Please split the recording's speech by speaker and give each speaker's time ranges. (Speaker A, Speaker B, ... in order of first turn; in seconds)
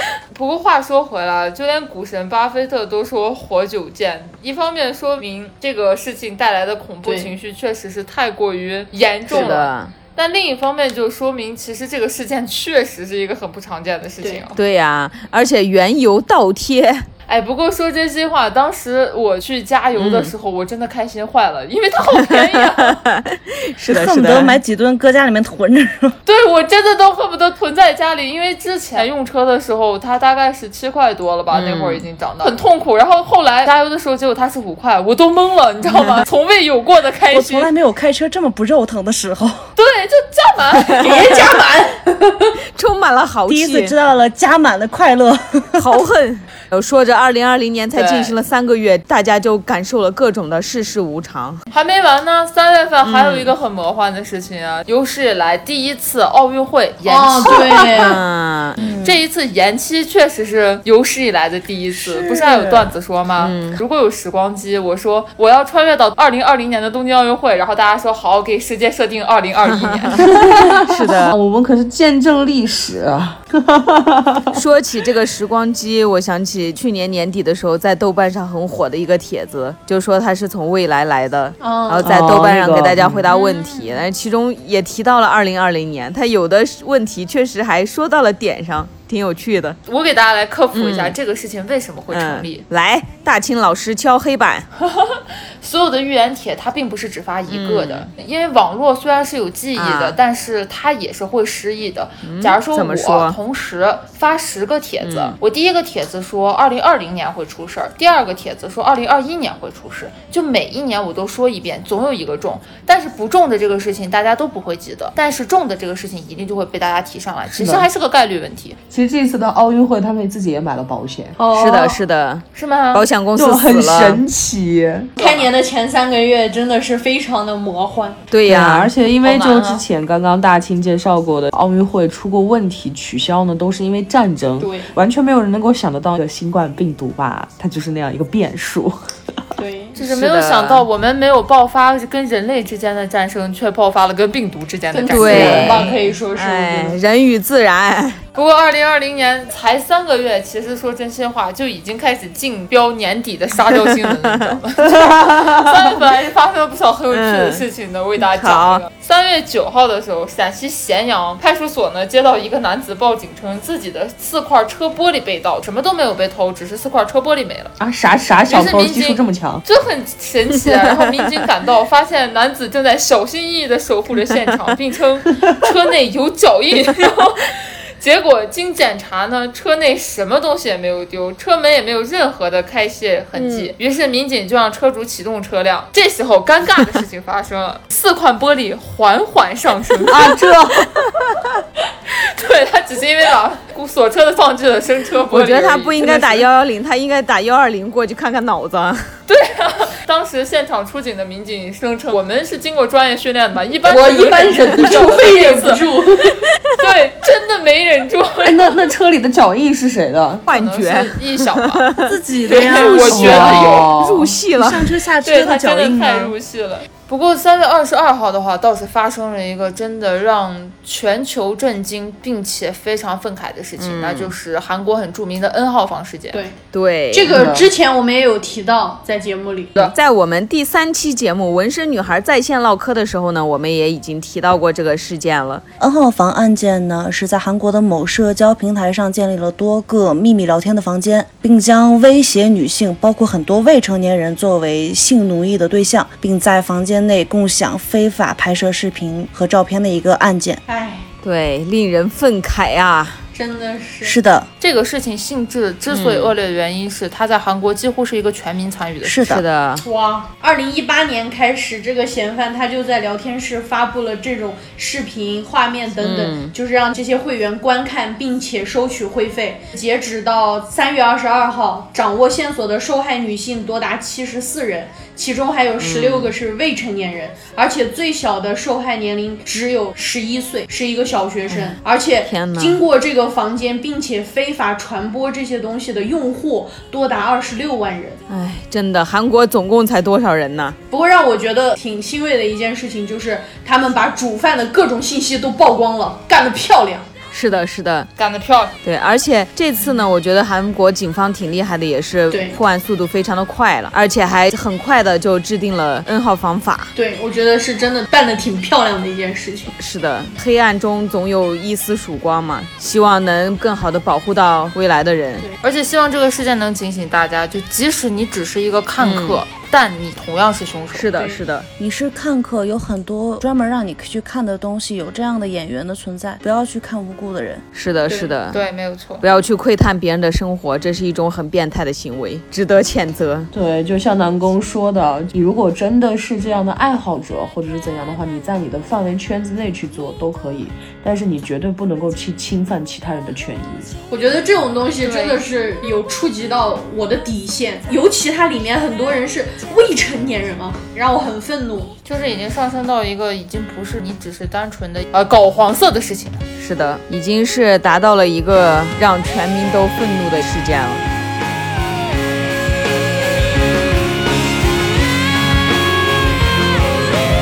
Speaker A: 0.3-14.6, 17.3-23.0, 26.2-37.7, 39.8-41.5, 47.9-48.3, 51.7-57.9, 59.0-70.6, 83.3-84.0, 89.9-92.6, 94.8-118.8, 122.5-123.0, 125.2-125.5, 129.2-129.8, 139.9-146.0, 148.3-167.7, 168.4-190.4, 192.1-196.5, 199.3-205.8, 206.8-208.8, 210.5-211.9, 212.4-213.9, 215.2-226.4, 254.6-259.2, 298.1-298.7, 315.6-321.1, 328.1-329.2, 345.0-345.4, 352.0-356.4
Speaker B: 7.0-7.3, 9.3-9.6, 41.0-42.5, 57.0-58.2, 81.6-82.2, 121.4-122.0, 125.2-128.2, 134.6-134.9, 139.6-139.9, 144.9-147.0, 203.9-206.4, 227.1-229.9, 250.7-251.1, 253.3-254.2, 259.8-288.2, 290.9-297.1, 302.3-302.6, 306.9-309.7, 344.1-351.9
Speaker C: 9.3-9.9, 14.6-17.1, 19.9-20.3, 23.0-24.6, 31.5-32.0, 42.8-43.9, 45.8-51.6, 53.0-53.5, 57.9-58.9, 63.4-63.8, 69.7-71.3, 74.5-89.8, 90.7-91.2, 92.1-94.7, 97.5-98.1, 99.7-100.2, 102.2-103.4, 105.0-105.4, 121.5-124.2, 128.3-128.9, 140.0-140.8, 145.1-148.2, 153.7-156.0, 157.1-157.6, 158.2-158.8, 170.5-171.2, 183.3-183.7, 195.3-199.1, 210.5-214.9, 223.8-224.3, 226.7-227.6, 229.9-235.6, 251.2-253.2, 255.9-256.3, 259.2-259.8, 266.0-266.5, 275.8-276.3, 281.5-282.8, 288.3-290.8, 297.3-298.1, 298.8-306.9, 309.8-315.5, 319.0-319.4, 320.9-321.7, 327.7-328.6, 329.2-333.5, 356.6-361.0
Speaker D: 23.9-26.1, 37.3-39.7, 43.5-45.9, 58.8-59.2, 61.9-62.9, 212.0-213.7, 214.5-216.3, 235.8-250.6, 254.0-254.5, 259.0-259.4, 321.8-327.6
Speaker E: 70.2-74.6, 82.0-83.3, 117.5-117.9, 118.9-121.4, 123.3-125.1, 128.4-139.0, 167.8-169.6, 190.1-190.9, 208.4-210.4, 212.9-214.4, 227.3-227.7, 333.5-343.9